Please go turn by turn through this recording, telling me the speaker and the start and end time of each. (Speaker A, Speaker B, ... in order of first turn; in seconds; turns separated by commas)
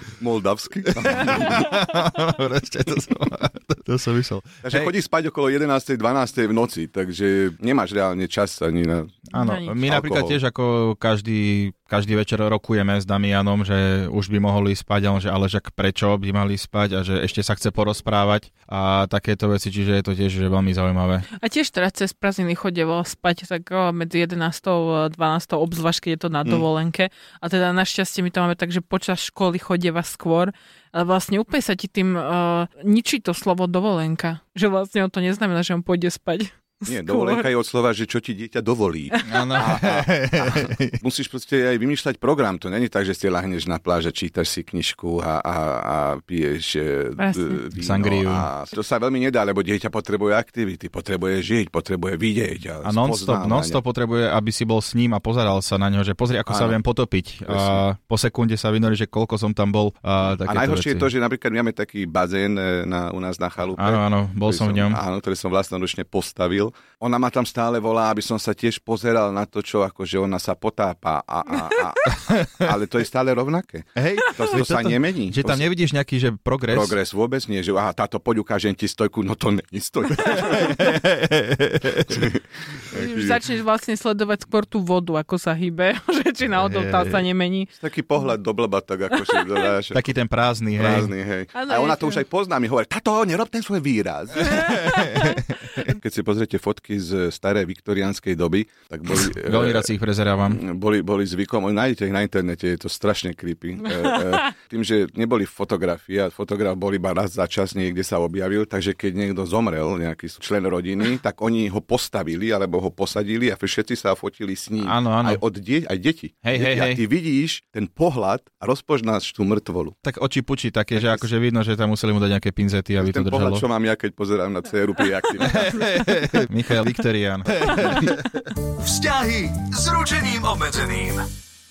Speaker A: 0.2-1.7, Speaker B: 1.0-4.9, Speaker A: 4.6-9.2, Speaker B: 9.3-21.2, Speaker C: 9.3-9.8, Speaker A: 9.8-10.4, Speaker C: 21.3-37.5, Speaker A: 36.9-53.8, Speaker B: 39.2-41.0, Speaker C: 47.2-47.6, Speaker B: 47.8-48.5, Speaker B: 52.8-61.1, Speaker A: 56.5-56.8, Speaker A: 57.5-57.8, Speaker A: 60.2-75.6, Speaker B: 63.8-65.0, Speaker B: 72.1-72.5, Speaker B: 74.0-76.9, Speaker A: 76.7-80.9, Speaker B: 80.3-82.2, Speaker A: 82.1-83.4, Speaker C: 82.9-87.7, Speaker B: 86.6-87.2, Speaker A: 87.8-90.1, Speaker B: 89.9-91.1, Speaker A: 90.8-99.9, Speaker C: 91.5-92.2, Speaker C: 94.5-95.4, Speaker B: 94.5-95.5, Speaker B: 99.2-100.6, Speaker A: 100.5-120.0, Speaker B: 114.8-115.4, Speaker B: 116.4-117.0, Speaker B: 120.0-123.6, Speaker A: 120.9-121.2, Speaker A: 123.0-125.9, Speaker B: 125.4-128.3, Speaker A: 127.8-128.0, Speaker D: 128.6-131.3